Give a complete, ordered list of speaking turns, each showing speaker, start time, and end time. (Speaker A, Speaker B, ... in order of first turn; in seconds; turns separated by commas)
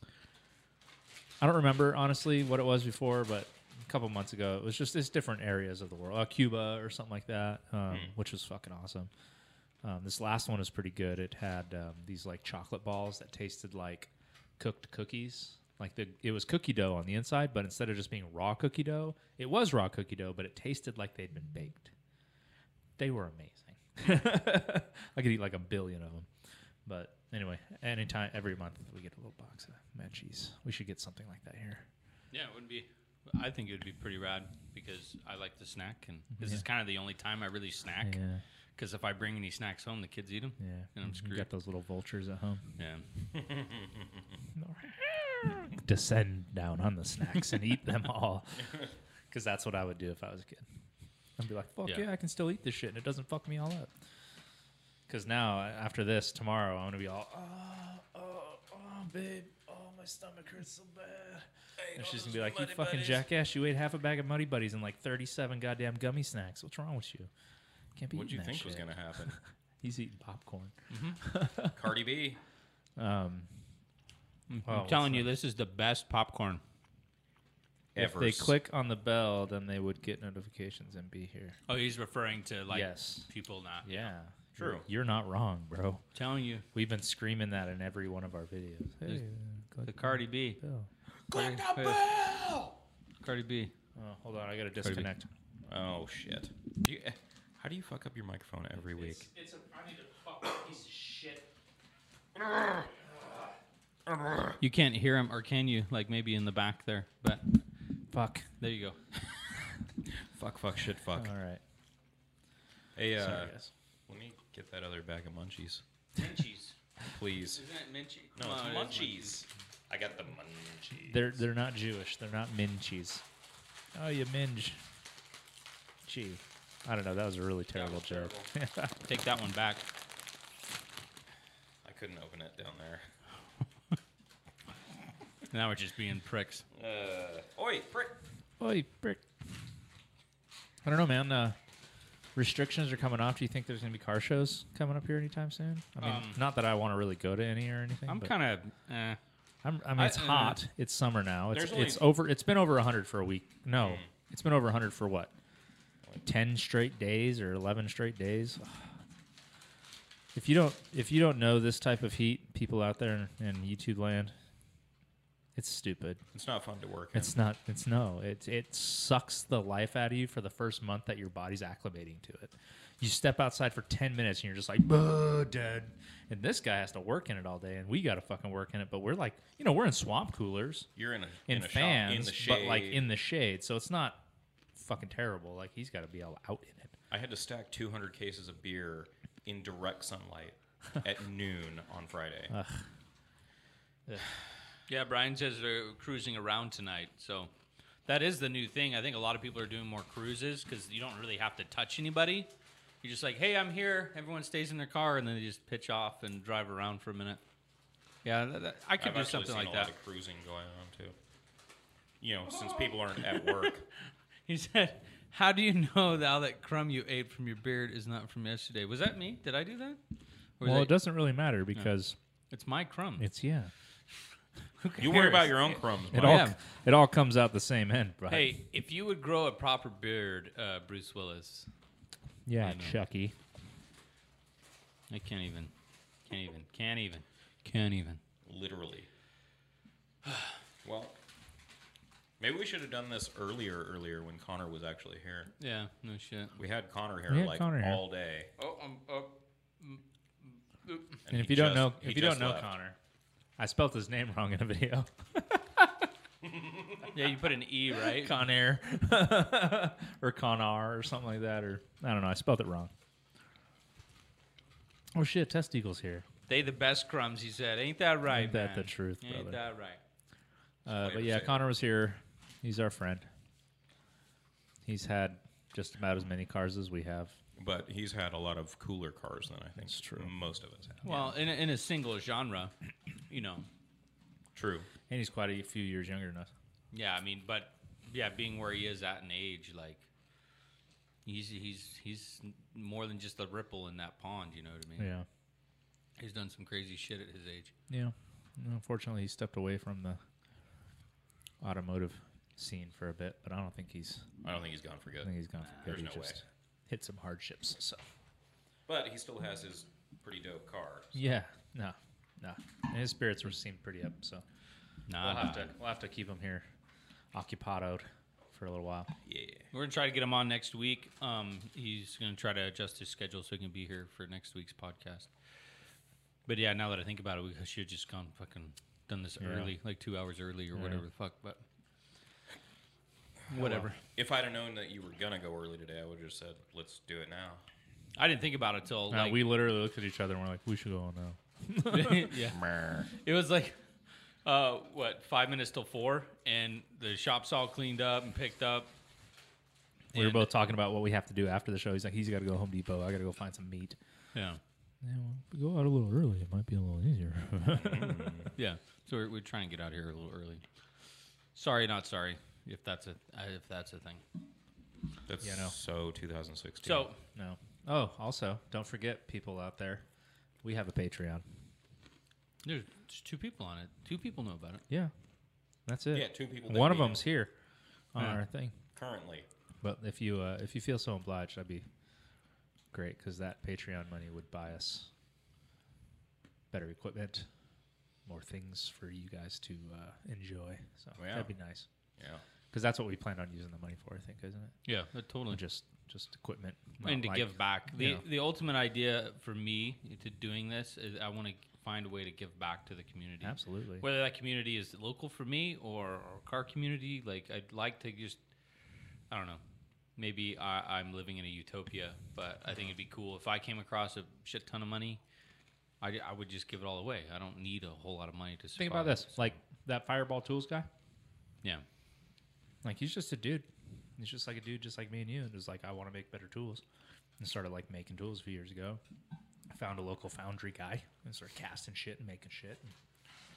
Speaker A: 1.4-9.1, Speaker A: 9.8-21.9, Speaker A: 23.0-26.3, Speaker A: 26.9-31.9, Speaker B: 32.3-38.2, Speaker A: 36.4-36.6, Speaker A: 38.0-38.4, Speaker B: 38.8-41.5, Speaker A: 40.6-42.7, Speaker B: 42.8-43.1, Speaker C: 43.3-44.2, Speaker A: 44.6-50.7, Speaker A: 51.4-53.9, Speaker A: 55.1-67.3, Speaker C: 61.8-63.2, Speaker A: 68.0-71.8, Speaker C: 68.1-69.4, Speaker B: 70.9-71.2, Speaker C: 71.7-72.4, Speaker A: 73.0-73.5, Speaker B: 74.5-76.6, Speaker A: 74.6-75.3, Speaker C: 78.0-78.5, Speaker A: 78.0-81.6, Speaker B: 81.7-84.1, Speaker A: 82.7-83.3, Speaker A: 83.8-86.0, Speaker C: 84.6-84.8, Speaker B: 86.2-86.7, Speaker A: 86.7-90.9, Speaker B: 89.8-90.6, Speaker C: 91.3-92.8, Speaker B: 91.3-92.0, Speaker B: 93.2-93.7, Speaker A: 94.0-95.3, Speaker B: 94.8-95.1, Speaker C: 95.7-99.3, Speaker A: 99.0-101.5, Speaker C: 102.5-102.8, Speaker C: 104.1-104.5, Speaker B: 104.6-107.6, Speaker A: 108.1-108.5, Speaker B: 108.6-109.0, Speaker C: 110.2-111.3, Speaker A: 111.2-111.6, Speaker C: 113.0-113.6, Speaker A: 113.2-113.7, Speaker C: 114.1-115.8, Speaker B: 116.2-116.8, Speaker C: 117.1-117.6, Speaker B: 117.5-119.4, Speaker C: 118.4-121.3, Speaker A: 121.0-123.2, Speaker A: 123.9-124.8, Speaker A: 126.0-128.9, Speaker C: 127.7-128.5, Speaker B: 129.0-129.8, Speaker C: 131.8-133.1, Speaker B: 135.5-136.7, Speaker C: 136.7-138.2, Speaker A: 138.6-139.2, Speaker A: 140.8-141.6, Speaker A: 142.3-148.3, Speaker B: 146.0-146.4, Speaker B: 148.1-149.2, Speaker A: 149.6-155.3, Speaker B: 150.0-150.6, Speaker C: 151.5-152.1, Speaker C: 153.8-154.1, Speaker A: 156.2-158.9, Speaker A: 160.3-164.3, Speaker A: 165.6-166.2, Speaker C: 166.3-167.3, Speaker A: 167.1-180.9, Speaker C: 181.0-183.1, Speaker A: 181.5-184.2, Speaker A: 184.8-186.9, Speaker C: 187.1-192.5, Speaker A: 192.5-192.9, Speaker B: 194.9-197.5, Speaker B: 198.1-202.5, Speaker B: 203.0-207.4, Speaker B: 208.2-209.9, Speaker C: 209.0-211.2, Speaker C: 212.2-213.9, Speaker B: 214.5-220.0, Speaker B: 220.6-220.9, Speaker A: 220.6-222.2, Speaker B: 222.5-223.3, Speaker A: 223.2-223.7, Speaker B: 224.8-226.6, Speaker C: 225.0-226.5, Speaker A: 226.1-228.6, Speaker B: 228.3-231.7, Speaker A: 232.5-233.3, Speaker B: 232.6-233.0, Speaker B: 235.1-235.7, Speaker B: 236.3-238.2, Speaker C: 238.4-239.1, Speaker B: 240.2-240.6, Speaker C: 240.8-241.2, Speaker C: 242.4-245.5, Speaker B: 245.6-246.6, Speaker C: 246.6-248.5, Speaker A: 247.3-248.0, Speaker B: 248.6-251.2, Speaker C: 251.2-252.7, Speaker A: 251.3-253.0, Speaker A: 253.6-256.1, Speaker B: 257.0-258.4, Speaker A: 258.0-262.9, Speaker A: 265.1-266.3, Speaker B: 266.5-270.0, Speaker A: 268.3-269.6, Speaker A: 270.9-273.3, Speaker C: 270.9-271.6, Speaker A: 274.9-277.4, Speaker C: 277.6-281.2, Speaker A: 279.8-280.3, Speaker B: 281.0-282.7, Speaker B: 283.3-283.7, Speaker C: 284.6-284.9, Speaker A: 285.1-286.5, Speaker B: 286.9-290.1, Speaker B: 291.2-295.1, Speaker A: 295.0-295.3, Speaker B: 296.2-297.7, Speaker A: 297.9-300.2, Speaker A: 301.6-304.3, Speaker C: 304.4-306.4, Speaker A: 305.2-308.0, Speaker C: 308.9-311.2, Speaker A: 311.1-314.4, Speaker B: 315.1-315.7, Speaker A: 315.2-316.6, Speaker A: 317.3-319.1, Speaker C: 319.2-319.7, Speaker B: 319.7-325.3, Speaker B: 326.5-331.6, Speaker A: 329.4-329.7, Speaker A: 330.8-331.0, Speaker B: 333.5-334.0, Speaker A: 333.5-333.9, Speaker C: 334.1-337.6, Speaker B: 338.2-339.4, Speaker A: 339.1-342.3, Speaker B: 341.9-343.8, Speaker C: 342.5-343.1, Speaker B: 344.4-348.9, Speaker B: 350.1-350.5, Speaker A: 350.1-354.0, Speaker B: 354.3-354.6, Speaker A: 355.0-358.4, Speaker C: 357.7-358.5, Speaker B: 358.6-360.6, Speaker B: 361.6-364.2, Speaker C: 365.3-367.1, Speaker A: 365.4-365.8, Speaker B: 366.8-367.2, Speaker A: 367.3-370.1, Speaker A: 370.6-371.5, Speaker B: 372.6-374.8, Speaker A: 375.9-377.5, Speaker C: 376.1-377.3, Speaker A: 378.1-378.8, Speaker C: 378.9-379.5, Speaker A: 379.8-381.9, Speaker A: 382.9-385.1, Speaker A: 386.7-387.5, Speaker A: 388.3-391.9, Speaker C: 391.2-391.5, Speaker C: 392.2-392.4, Speaker A: 392.7-394.8, Speaker B: 394.9-395.6, Speaker A: 395.5-398.2, Speaker B: 397.0-408.4, Speaker A: 403.4-404.1, Speaker B: 409.3-409.6, Speaker B: 410.2-415.2, Speaker B: 416.0-419.6, Speaker A: 418.8-420.9, Speaker A: 422.8-426.8, Speaker A: 427.4-429.0, Speaker A: 429.7-432.9